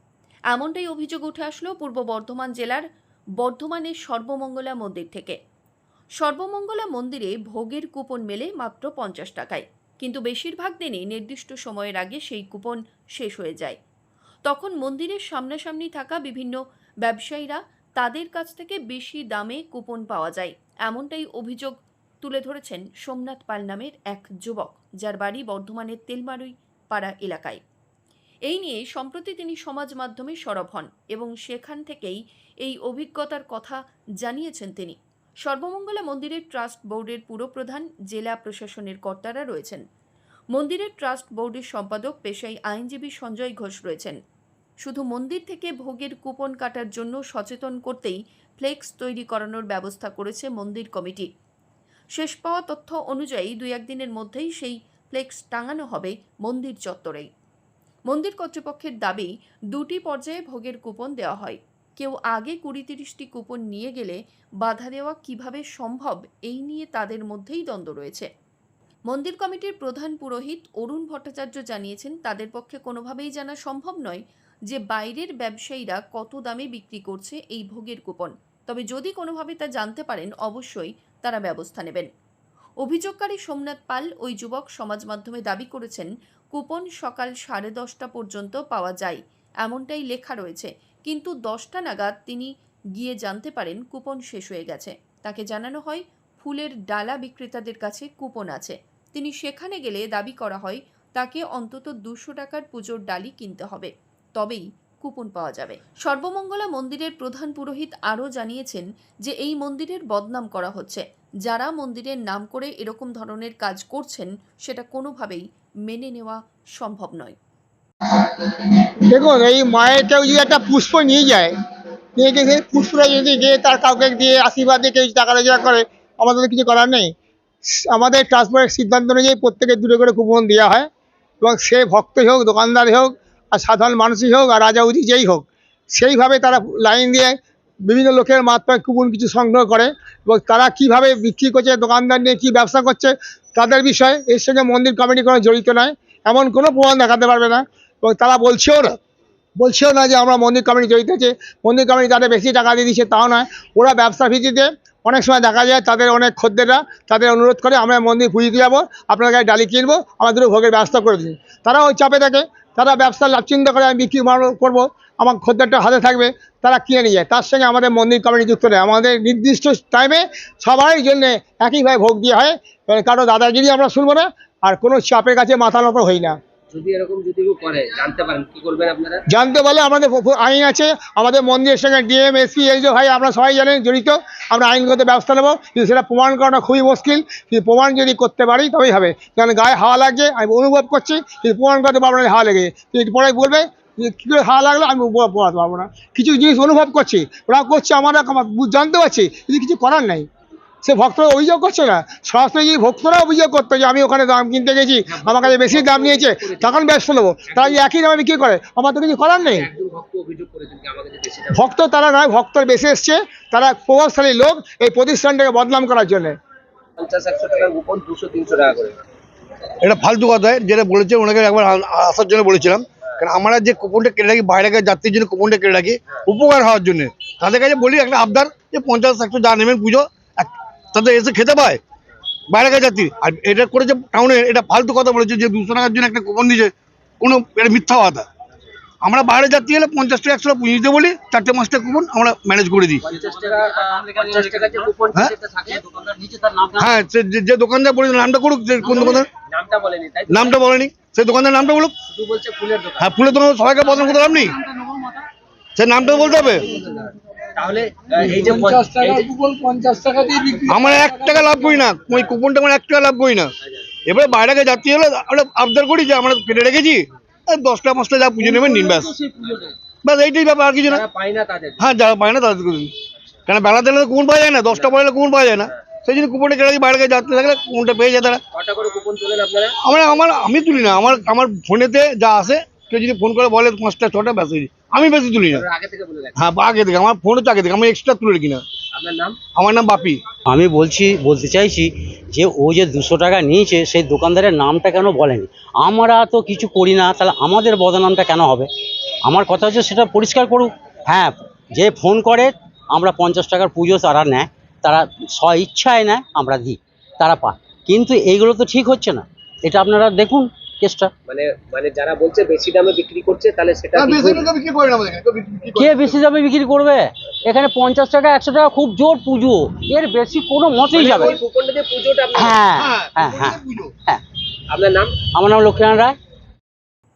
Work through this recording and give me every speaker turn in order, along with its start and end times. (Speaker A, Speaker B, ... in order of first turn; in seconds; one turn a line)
Speaker A: 0.5-2.9
Speaker A: 3.4-5.4
Speaker A: 6.2-13.8
Speaker A: 14.4-27.6
Speaker A: 28.5-39.8
Speaker A: 40.5-44.2
Speaker A: 44.8-51.3
Speaker A: 52.2-57.3
Speaker A: 58.1-68.3
Speaker A: 69.1-82.1
Speaker A: 82.8-117.4
Speaker B: 118.2-121.5
Speaker B: 122.2-127.1
Speaker B: 127.7-130.9
Speaker B: 131.4-149.0
Speaker B: 149.6-176.4
Speaker C: 176.7-179.2
Speaker B: 179.3-200.3
Speaker B: 200.8-209.7
Speaker C: 205.1-206.8
Speaker C: 207.5-207.8
Speaker C: 209.6-211.7
Speaker B: 211.6-216.4
Speaker C: 217.0-219.0
Speaker D: 219.8-231.8
Speaker D: 232.5-238.3
Speaker D: 239.0-243.0
Speaker C: 243.1-245.9
Speaker E: 243.1-244.9
Speaker E: 245.7-246.9
Speaker D: 246.8-249.3
Speaker C: 248.8-250.6
Speaker D: 250.3-251.9
Speaker C: 252.0-253.2
Speaker D: 253.0-254.6
Speaker E: 254.6-255.2
Speaker D: 255.8-256.7
Speaker C: 256.1-259.4
Speaker B: 259.9-260.4
Speaker D: 260.7-263.5
Speaker D: 264.1-269.1
Speaker E: 268.4-269.3
Speaker C: 269.3-269.8
Speaker D: 270.0-271.0
Speaker C: 270.8-271.9
Speaker D: 271.8-272.9
Speaker D: 273.5-278.4
Speaker C: 274.7-275.0
Speaker C: 278.5-279.8
Speaker D: 279.8-285.6
Speaker C: 285.5-286.5
Speaker D: 286.4-288.6
Speaker C: 288.9-289.4
Speaker D: 289.5-290.2
Speaker E: 290.5-298.7
Speaker E: 299.2-311.1
Speaker C: 311.3-314.5
Speaker D: 313.9-316.2
Speaker E: 315.8-321.4
Speaker C: 320.9-322.6
Speaker E: 322.3-324.2
Speaker D: 322.7-323.9
Speaker C: 324.7-325.2
Speaker E: 325.3-326.2